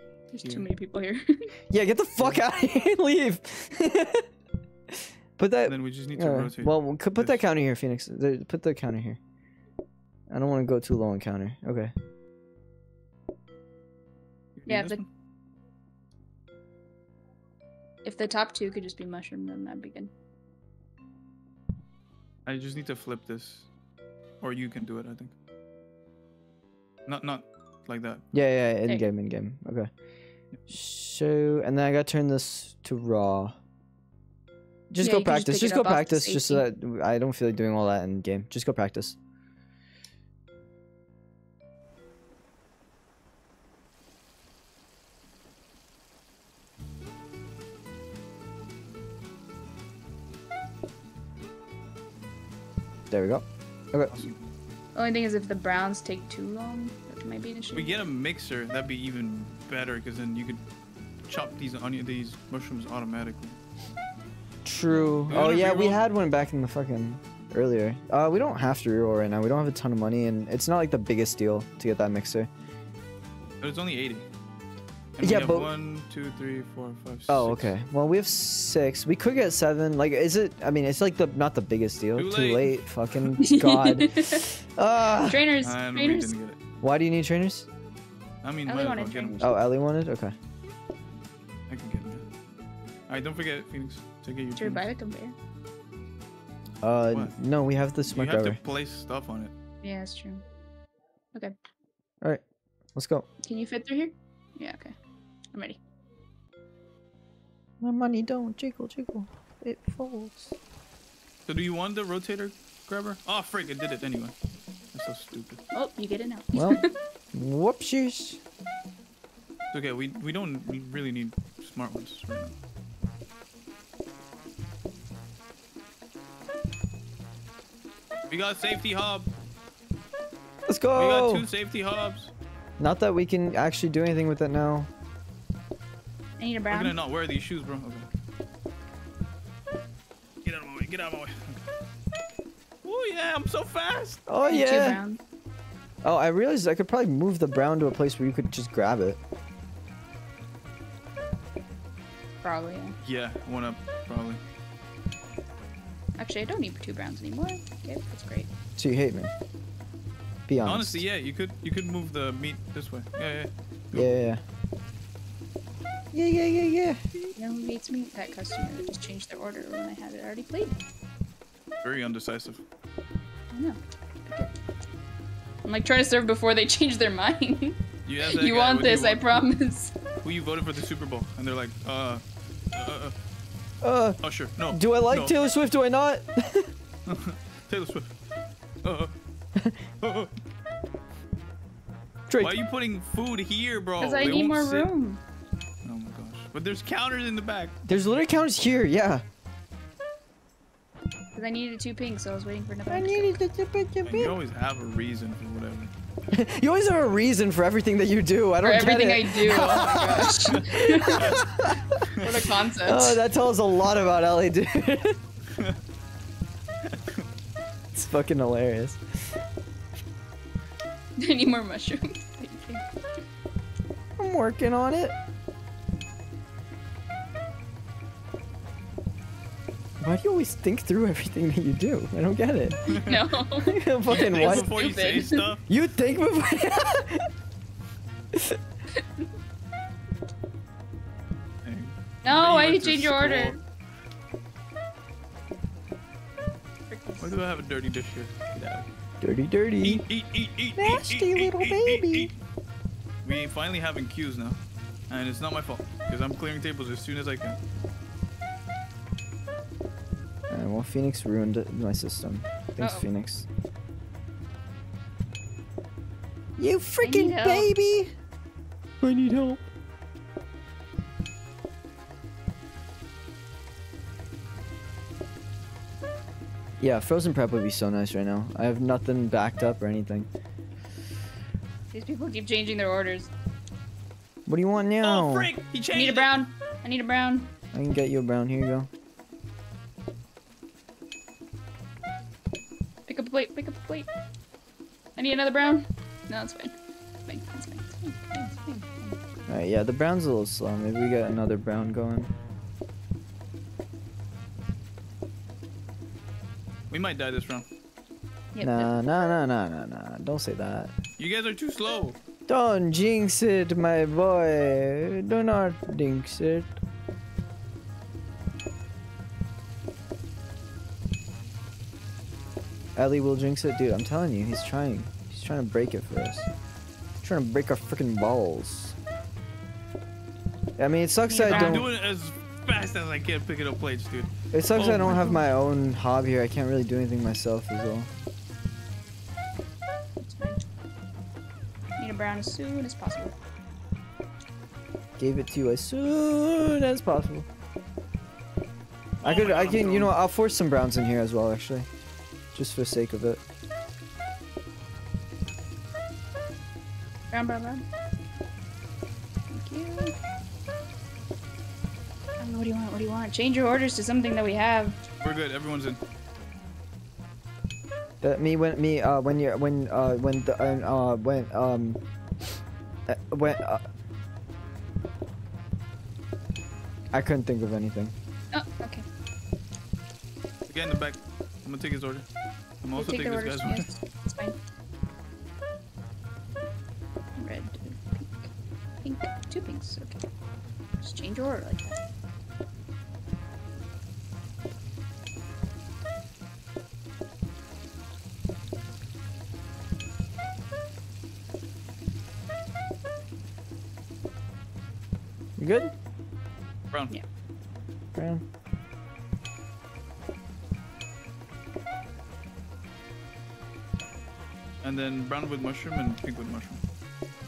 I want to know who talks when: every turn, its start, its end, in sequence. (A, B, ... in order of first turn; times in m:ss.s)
0:00.3-0:01.5 A
0:01.7-0:04.3 B
0:05.4-0:09.2 B
0:05.6-0:07.4 C
0:10.3-0:11.9 B
0:14.5-0:15.1 C
0:14.7-0:15.0 A
0:18.0-0:20.1 A
0:22.4-0:23.7 C
0:24.4-0:25.3 C
0:27.1-0:28.2 C
0:28.3-0:29.9 B
0:30.7-0:33.6 B
0:34.9-0:39.2 B
0:35.0-0:36.6 A
0:53.1-0:54.3 B
0:54.1-0:54.4 C
0:54.9-0:58.0 A
0:57.7-1:00.6 C
1:01.2-1:03.6 C
1:04.6-1:12.5 B
1:05.3-1:06.0 C
1:13.6-1:14.3 C
1:15.2-1:17.7 C
1:15.2-1:15.7 B
1:17.3-1:25.4 B
1:22.2-1:22.8 C
1:23.4-1:24.4 A
1:25.2-1:26.3 A
1:25.6-1:26.6 C
1:26.8-1:27.7 B
1:28.4-1:29.4 C
1:28.7-1:29.6 A
1:29.4-1:30.3 B
1:31.7-1:32.2 C
1:33.1-1:34.9 C
1:34.6-1:35.3 A
1:36.8-1:38.6 B
1:38.1-1:39.5 C
1:39.8-1:40.4 A
1:42.9-1:43.2 B
1:43.4-1:44.9 A
1:45.5-1:45.8 A
1:47.8-1:50.5 B
1:51.4-1:54.3 C
1:54.9-1:55.6 C
1:55.7-1:56.9 A
1:56.5-1:56.8 B
1:57.3-1:58.4 B
1:59.7-2:02.5 C
2:08.3-2:09.3 C
2:10.7-2:11.4 B
2:11.0-2:12.3 C
2:12.8-2:14.9 B
2:16.4-2:16.9 A
2:16.7-2:18.1 C
2:20.4-2:21.6 C
2:22.8-2:24.2 C
2:24.3-2:25.0 B
2:24.5-2:25.2 A
2:26.0-2:29.2 B
2:32.4-2:33.0 A
2:33.0-2:34.4 C
2:36.2-2:38.5 A
2:38.8-2:39.3 B
2:40.5-2:41.0 B
2:40.6-2:44.1 C
2:43.9-2:44.4 B
2:46.1-2:47.1 B
2:47.4-2:50.8 A
2:51.8-2:52.6 C
2:53.5-2:54.5 A
2:55.6-2:59.9 A
2:58.0-2:59.4 C
3:00.2-3:03.1 C
3:03.8-3:06.7 B
3:04.2-3:05.4 C
3:07.1-3:08.1 C
3:08.8-3:09.1 C
3:10.0-3:10.3 C
3:12.3-3:12.5 B
3:12.4-3:14.9 C
3:14.0-3:15.2 A
3:15.8-3:18.0 C
3:17.9-3:19.2 B
3:21.3-3:23.4 A
3:22.9-3:24.4 B
3:24.0-3:25.9 C
3:26.3-3:32.0 B
3:28.6-3:31.4 A
3:30.5-3:32.4 C
3:32.2-3:33.2 A
3:32.8-3:35.2 B
3:36.9-3:37.2 C
3:37.9-3:39.4 B
3:41.2-3:42.8 A
3:44.2-3:45.1 B
3:50.0-3:53.0 B
3:52.9-3:53.2 C
3:53.0-3:55.5 A
3:53.7-3:54.7 B
3:54.1-3:55.6 C
3:55.7-3:57.3 B
3:58.3-3:58.6 B
4:01.6-4:03.6 C
4:02.2-4:03.6 A
4:06.9-4:07.3 A
4:07.2-4:08.9 C
4:09.2-4:10.0 B
4:09.8-4:12.4 C
4:10.8-4:12.3 B
4:13.2-4:17.6 C
4:20.5-4:23.5 B
4:22.8-4:23.1 A
4:26.6-4:28.1 B
4:27.0-4:27.8 A
4:29.0-4:29.6 B
4:36.8-4:40.3 B
4:41.9-4:43.3 A
4:44.4-4:45.5 B
4:45.0-4:46.3 C
4:45.9-4:47.5 A
4:47.7-4:48.9 B
4:53.1-4:54.1 A
4:55.2-4:56.7 A
4:57.2-4:59.2 A
4:59.5-5:02.3 B
5:06.9-5:07.7 C
5:08.5-5:08.9 A
5:08.6-5:10.9 B
5:11.2-5:12.2 C
5:12.5-5:16.7 B
5:23.0-5:26.5 B
5:27.2-5:29.0 B
5:30.8-5:31.9 B
5:31.3-5:31.8 A
5:31.4-5:35.4 C
5:34.5-5:38.1 B
5:40.2-5:40.6 A
5:42.0-5:43.3 A
5:45.2-5:47.4 B
5:49.2-5:50.1 C
5:49.2-5:51.9 B
5:52.5-5:53.4 B
5:57.3-5:57.8 A
5:59.5-6:00.1 A
6:02.4-6:05.0 A
6:05.2-6:06.0 C
6:08.2-6:12.0 B
6:13.1-6:13.8 B
6:17.1-6:18.1 B
6:18.5-6:19.0 A
6:20.7-6:22.2 C
6:22.8-6:23.9 C
6:23.0-6:24.6 A
6:27.4-6:28.5 A
6:29.0-6:30.2 A
6:31.0-6:32.0 A
6:45.6-6:45.9 B
6:48.1-6:48.4 B
6:54.8-6:56.8 C